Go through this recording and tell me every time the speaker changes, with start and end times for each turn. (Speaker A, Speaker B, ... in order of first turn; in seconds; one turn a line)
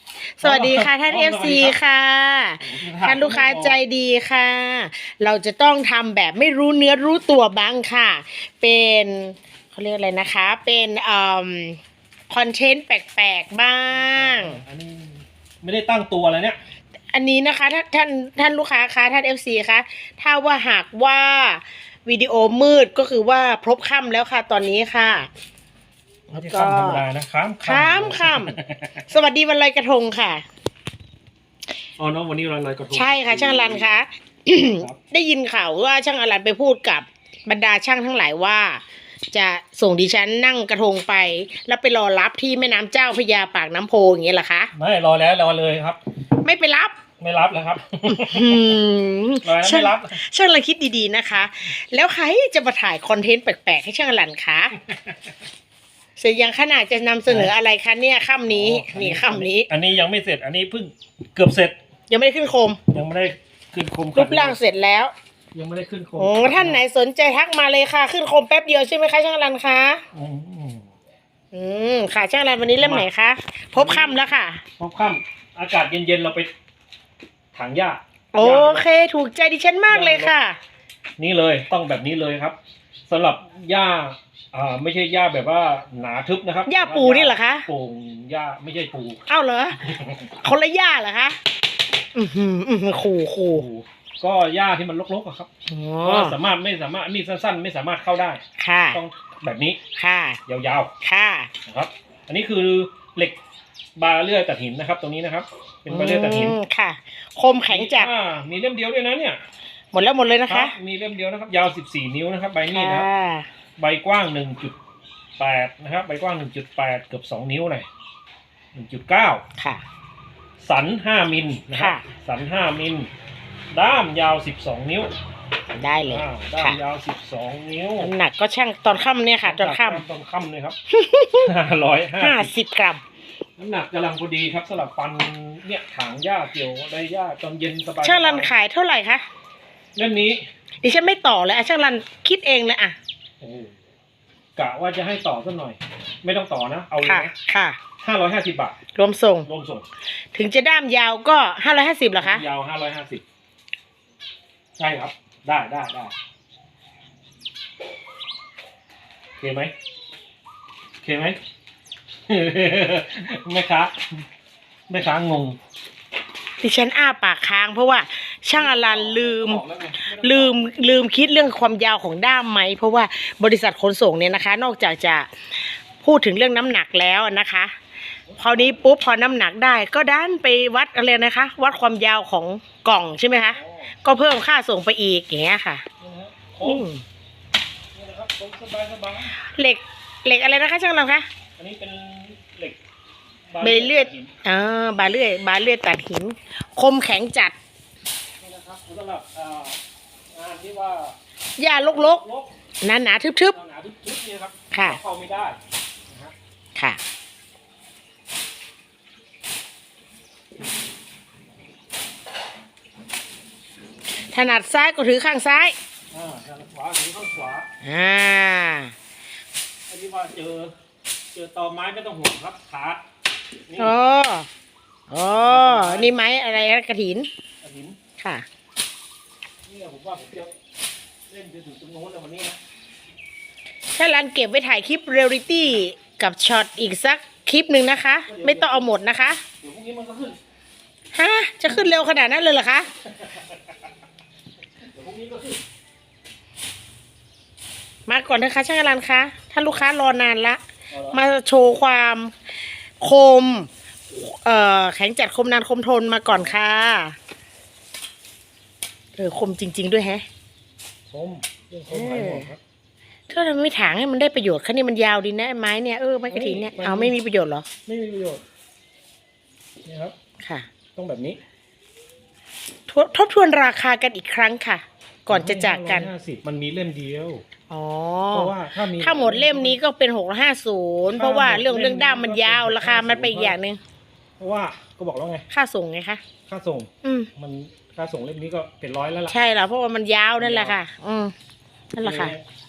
Speaker A: 0.2-11.8
Speaker B: 0.4-1.8
Speaker B: 2.6-3.8
Speaker A: 12.3-14.6
Speaker B: 13.9-16.6
Speaker A: 17.1-25.3
Speaker B: 26.3-29.1
Speaker A: 26.5-27.0
Speaker A: 27.6-30.4
Speaker B: 32.0-33.9
Speaker A: 32.9-44.7
Speaker B: 44.7-46.0
Speaker A: 46.4-47.0
Speaker B: 47.2-48.8
Speaker A: 48.1-54.8
Speaker B: 49.4-50.1
Speaker A: 56.2-59.7
Speaker B: 57.3-57.5
Speaker B: 58.5-61.7
Speaker A: 62.1-62.8
Speaker B: 62.9-64.6
Speaker A: 64.1-65.1
Speaker B: 65.5-66.8
Speaker A: 66.2-70.0
Speaker B: 70.1-70.8
Speaker A: 71.5-74.6
Speaker B: 72.8-73.1
Speaker B: 73.7-74.2
Speaker B: 74.8-76.5
Speaker B: 77.5-78.8
Speaker A: 78.3-80.6
Speaker B: 79.9-80.3
Speaker B: 81.2-82.6
Speaker B: 83.1-89.2
Speaker A: 86.7-87.7
Speaker A: 89.3-91.4
Speaker B: 89.8-90.2
Speaker A: 92.1-93.7
Speaker B: 93.5-95.5
Speaker A: 95.7-96.4
Speaker B: 96.0-98.4
Speaker A: 98.6-99.0
Speaker B: 98.9-99.8
Speaker A: 100.0-100.4
Speaker B: 100.5-100.9
Speaker A: 101.0-101.5
Speaker B: 101.7-103.4
Speaker B: 104.0-106.6
Speaker A: 105.9-108.1
Speaker B: 107.7-109.4
Speaker A: 109.9-110.7
Speaker B: 110.5-113.1
Speaker A: 112.7-113.5
Speaker B: 113.8-114.7
Speaker B: 115.4-117.9
Speaker B: 118.7-119.4
Speaker A: 119.6-119.8
Speaker B: 120.6-123.1
Speaker A: 121.7-122.1
Speaker B: 123.7-125.1
Speaker A: 125.7-126.8
Speaker B: 126.0-128.1
Speaker A: 128.0-130.0
Speaker B: 129.4-130.8
Speaker A: 130.9-131.5
Speaker B: 131.4-132.5
Speaker A: 132.2-133.0
Speaker B: 133.6-138.5
Speaker A: 138.0-139.2
Speaker B: 139.9-140.5
Speaker A: 140.8-143.0
Speaker B: 143.4-143.7
Speaker B: 144.6-147.3
Speaker A: 147.0-147.8
Speaker B: 148.0-148.8
Speaker A: 148.9-149.5
Speaker B: 149.4-149.8
Speaker A: 150.3-152.4
Speaker B: 152.2-153.2
Speaker B: 154.8-156.1
Speaker B: 159.4-159.7
Speaker B: 161.0-161.4
Speaker B: 162.3-164.2
Speaker B: 164.9-165.6
Speaker A: 166.6-175.3
Speaker B: 168.5-170.6
Speaker A: 176.0-177.7
Speaker B: 178.3-178.8
Speaker A: 178.4-185.8
Speaker B: 183.5-183.9
Speaker B: 186.0-186.9
Speaker A: 186.6-187.0
Speaker B: 187.9-189.4
Speaker A: 189.4-191.2
Speaker B: 191.6-192.8
Speaker B: 193.5-194.3
Speaker A: 193.6-197.5
Speaker B: 198.4-199.8
Speaker B: 200.3-201.1
Speaker A: 201.6-202.2
Speaker B: 201.9-202.5
Speaker A: 202.8-203.6
Speaker B: 203.5-205.6
Speaker A: 204.7-205.0
Speaker B: 206.1-206.3
Speaker A: 214.3-215.8
Speaker B: 216.1-217.7
Speaker A: 217.8-218.9
Speaker B: 219.9-220.7
Speaker B: 221.3-223.0
Speaker B: 223.7-223.9
Speaker A: 223.8-224.5
Speaker A: 225.1-227.3
Speaker B: 225.3-226.1
Speaker B: 227.6-228.0
Speaker A: 228.2-228.4
Speaker B: 229.7-230.5
Speaker B: 231.3-232.6
Speaker A: 233.9-239.4
Speaker B: 238.3-238.9
Speaker B: 239.6-240.4
Speaker A: 241.1-242.9
Speaker B: 243.2-243.6
Speaker B: 244.8-245.6
Speaker A: 248.1-250.6
Speaker B: 250.9-251.2
Speaker A: 251.1-252.3
Speaker A: 253.0-257.1
Speaker A: 259.1-260.2
Speaker B: 261.1-262.6
Speaker A: 261.9-262.5
Speaker A: 263.3-267.7
Speaker B: 266.3-267.1
Speaker B: 267.9-268.4
Speaker B: 269.8-270.1
Speaker A: 270.4-270.7
Speaker B: 270.9-271.4
Speaker A: 272.9-276.1
Speaker B: 275.3-277.4
Speaker A: 277.7-283.8
Speaker B: 278.3-279.8
Speaker B: 281.1-283.6
Speaker B: 284.4-285.5
Speaker A: 285.5-286.2
Speaker B: 286.5-289.3
Speaker A: 287.0-287.3
Speaker A: 289.3-291.3
Speaker B: 290.4-290.8
Speaker A: 291.9-292.3
Speaker B: 292.0-292.4